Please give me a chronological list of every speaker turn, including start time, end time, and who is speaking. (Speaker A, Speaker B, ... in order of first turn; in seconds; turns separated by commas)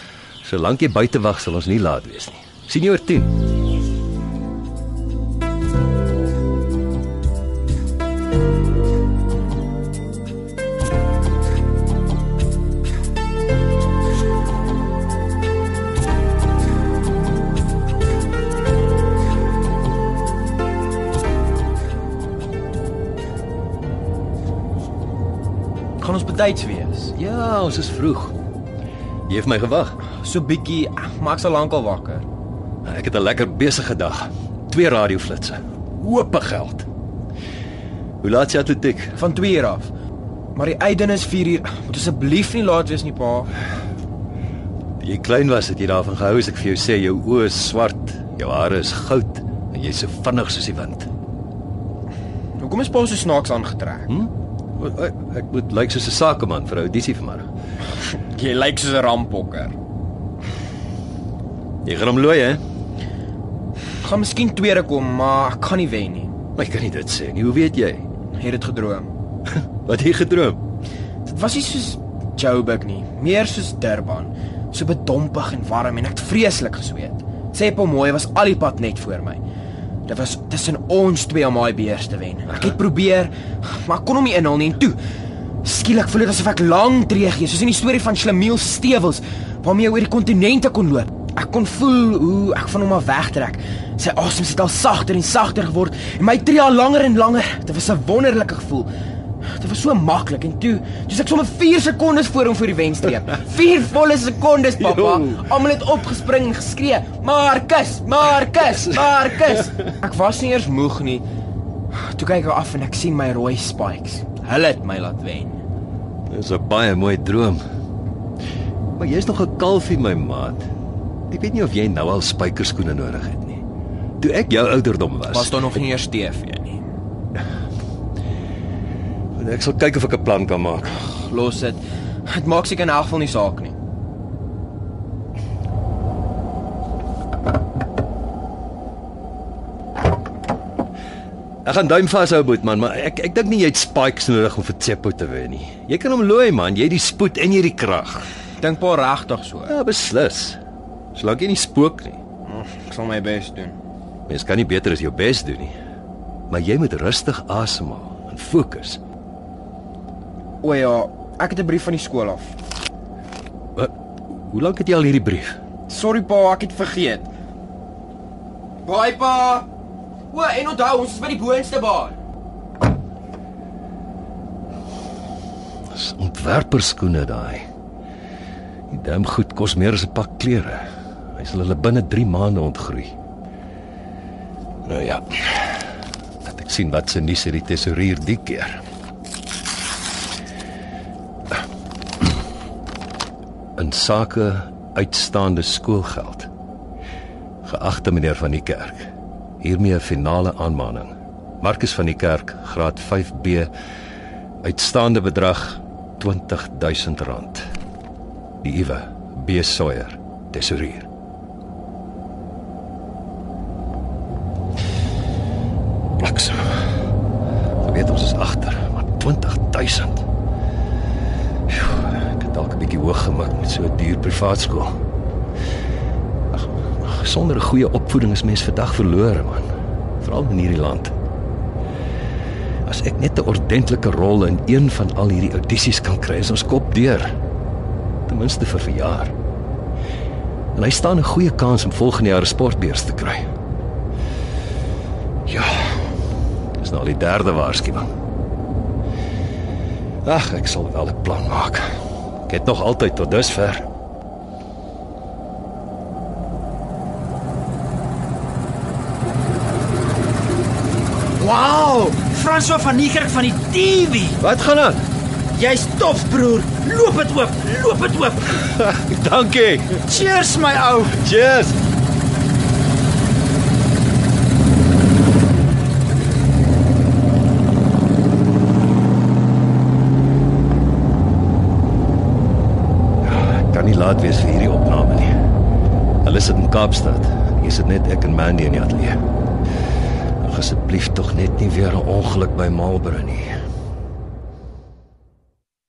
Speaker A: 0.4-3.4, Speaker B: 26.0-27.1, Speaker A: 27.1-28.3, Speaker A: 29.3-30.0, Speaker B: 30.0-32.2, Speaker A: 32.8-36.9, Speaker A: 38.2-39.2, Speaker B: 39.2-39.9, Speaker B: 40.5-43.5, Speaker A: 45.0-51.1, Speaker B: 52.6-54.1, Speaker A: 54.1-57.5, Speaker B: 58.3-59.8, Speaker A: 61.8-62.6, Speaker B: 64.0-66.3, Speaker A: 66.5-68.1, Speaker B: 68.4-69.1, Speaker A: 69.5-70.6, Speaker B: 71.2-79.4, Speaker B: 80.1-85.0, Speaker B: 85.6-98.9, Speaker B: 99.4-111.2, Speaker A: 104.8-105.3, Speaker A: 108.6-109.7, Speaker B: 111.9-115.6, Speaker A: 116.3-117.6, Speaker A: 119.0-120.7, Speaker A: 121.3-123.6, Speaker A: 124.2-125.8, Speaker B: 125.3-126.8, Speaker A: 129.4-131.0, Speaker B: 131.2-133.8, Speaker A: 141.6-148.3, Speaker B: 148.6-149.7, Speaker A: 149.7-150.6, Speaker A: 151.1-152.2, Speaker B: 152.4-153.8, Speaker A: 154.3-155.7, Speaker A: 156.5-159.0, Speaker B: 160.6-162.5, Speaker A: 163.8-165.6, Speaker B: 165.9-167.3, Speaker B: 168.8-169.7, Speaker B: 170.3-172.2, Speaker A: 175.9-177.7, Speaker A: 178.9-183.2, Speaker A: 184.8-185.9, Speaker A: 186.4-188.8, Speaker A: 193.8-196.5, Speaker A: 197.6-203.7, Speaker A: 204.6-207.7, Speaker A: 208.6-211.1, Speaker A: 216.2-216.9, Speaker A: 217.8-220.3, Speaker A: 221.7-225.0, Speaker A: 226.5-229.7, Speaker A: 230.2-231.1, Speaker A: 232.8-237.3, Speaker A: 238.3-239.3, Speaker A: 240.7-243.5, Speaker A: 245.4-246.1, Speaker A: 246.8-248.1, Speaker A: 250.2-253.9, Speaker C: 261.4-264.4, Speaker A: 264.4-265.0, Speaker C: 265.5-268.7, Speaker A: 268.7-270.0, Speaker C: 270.0-271.2, Speaker A: 271.1-271.8, Speaker A: 283.2-285.3, Speaker A: 286.2-289.2, Speaker A: 290.4-293.5